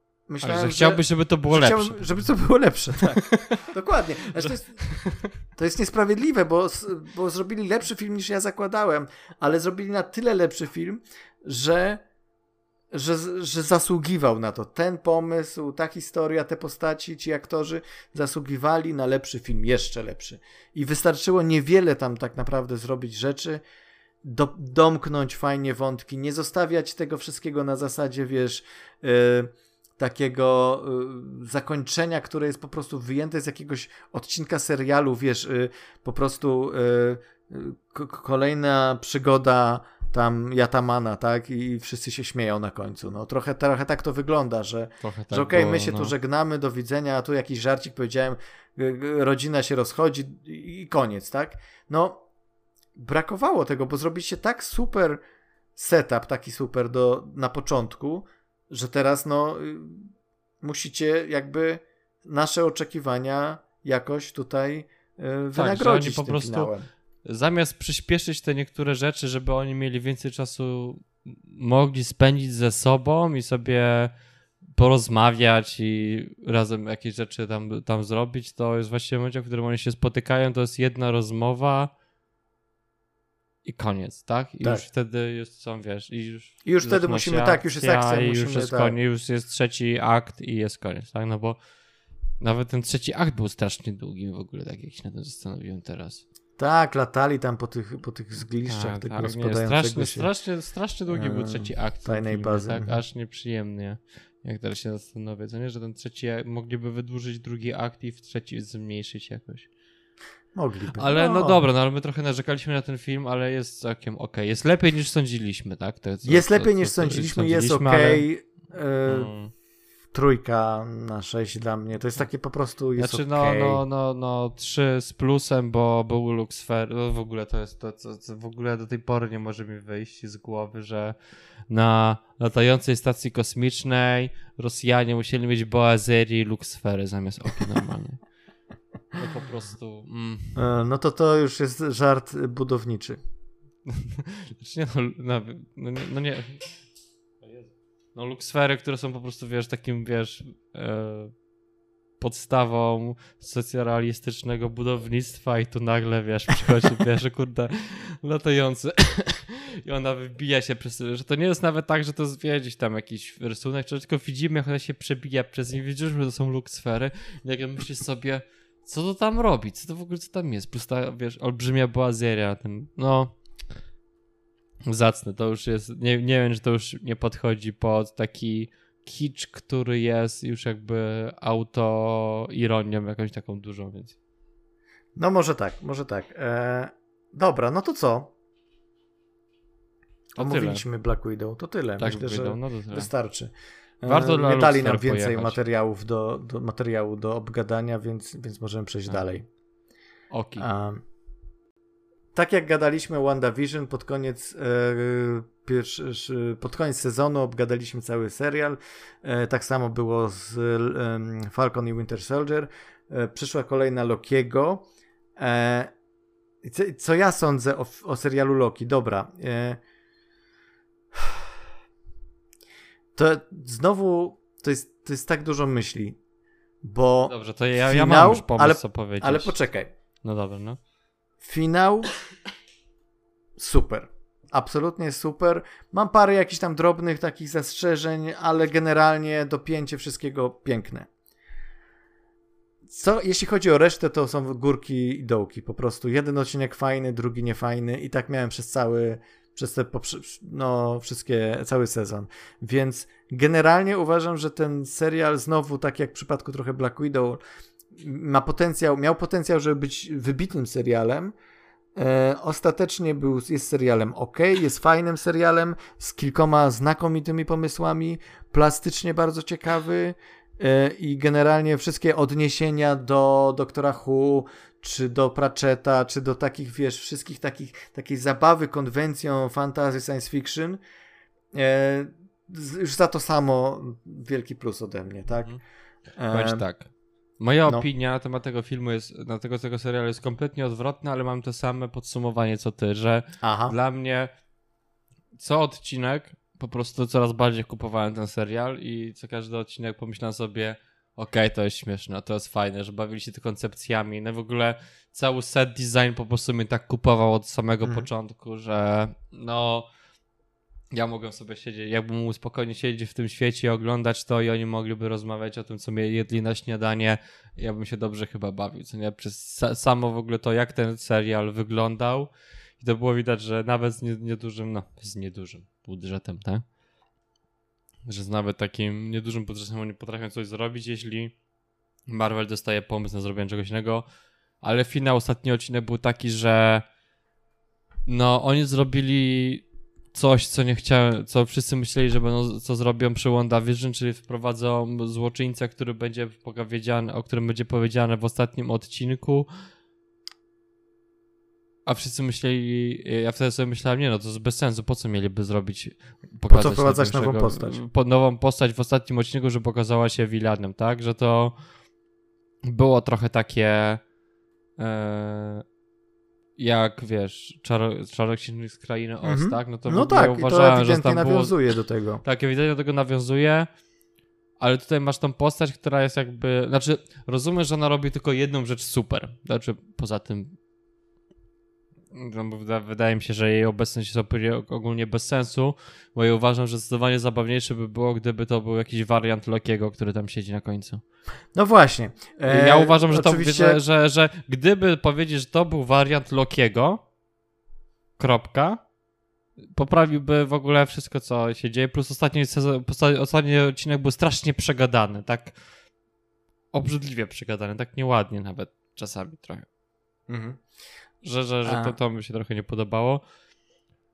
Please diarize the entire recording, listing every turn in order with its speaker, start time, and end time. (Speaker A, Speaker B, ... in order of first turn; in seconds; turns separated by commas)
Speaker A: 0.3-4.9, Speaker B: 0.4-2.0, Speaker B: 4.4-5.3, Speaker A: 5.5-12.0, Speaker A: 12.9-23.6, Speaker A: 24.2-52.2, Speaker B: 45.0-46.1, Speaker A: 53.0-55.2, Speaker A: 55.8-60.1, Speaker A: 60.6-66.8, Speaker B: 65.5-66.7, Speaker B: 67.2-74.1, Speaker B: 74.8-81.9, Speaker B: 83.6-91.6, Speaker A: 86.6-89.0, Speaker B: 92.4-96.2, Speaker A: 96.6-100.3, Speaker B: 98.7-109.7, Speaker A: 101.1-103.0, Speaker A: 110.5-111.6, Speaker B: 111.0-118.2, Speaker A: 116.2-119.3, Speaker B: 119.1-119.5, Speaker A: 120.1-123.8, Speaker B: 123.0-131.1, Speaker B: 131.7-138.2, Speaker B: 139.1-140.6, Speaker A: 140.5-143.2, Speaker B: 143.9-146.8, Speaker B: 147.4-151.3, Speaker B: 152.2-173.3, Speaker B: 174.8-184.2, Speaker A: 185.2-188.3, Speaker B: 190.4-190.8, Speaker A: 190.4-199.4, Speaker B: 192.0-193.1, Speaker B: 194.1-195.6, Speaker B: 200.3-200.7, Speaker A: 200.6-201.0, Speaker A: 202.3-214.8, Speaker A: 215.4-215.9, Speaker A: 216.6-219.8, Speaker A: 223.1-226.2, Speaker A: 226.8-229.9, Speaker B: 227.3-229.5, Speaker B: 230.2-230.8, Speaker A: 231.4-232.1, Speaker A: 233.6-241.1, Speaker A: 242.9-257.4, Speaker A: 258.0-261.3, Speaker A: 261.9-280.8, Speaker A: 281.5-285.5, Speaker A: 286.2-286.6, Speaker B: 286.3-294.3, Speaker A: 293.4-293.7, Speaker B: 295.3-309.9, Speaker B: 310.9-326.6, Speaker B: 328.0-331.3, Speaker B: 332.1-334.0, Speaker B: 334.6-336.8, Speaker B: 338.1-349.5, Speaker B: 351.9-361.5, Speaker A: 356.5-357.8, Speaker B: 362.6-364.0, Speaker B: 364.8-365.6, Speaker B: 366.6-371.5, Speaker A: 369.2-372.2, Speaker B: 372.2-373.7, Speaker B: 374.6-380.5, Speaker B: 382.1-391.0, Speaker A: 391.5-393.8, Speaker B: 392.5-397.0, Speaker B: 398.2-398.8, Speaker B: 399.6-405.5, Speaker B: 406.7-409.6, Speaker A: 410.3-410.6, Speaker B: 411.2-413.2, Speaker A: 411.6-411.9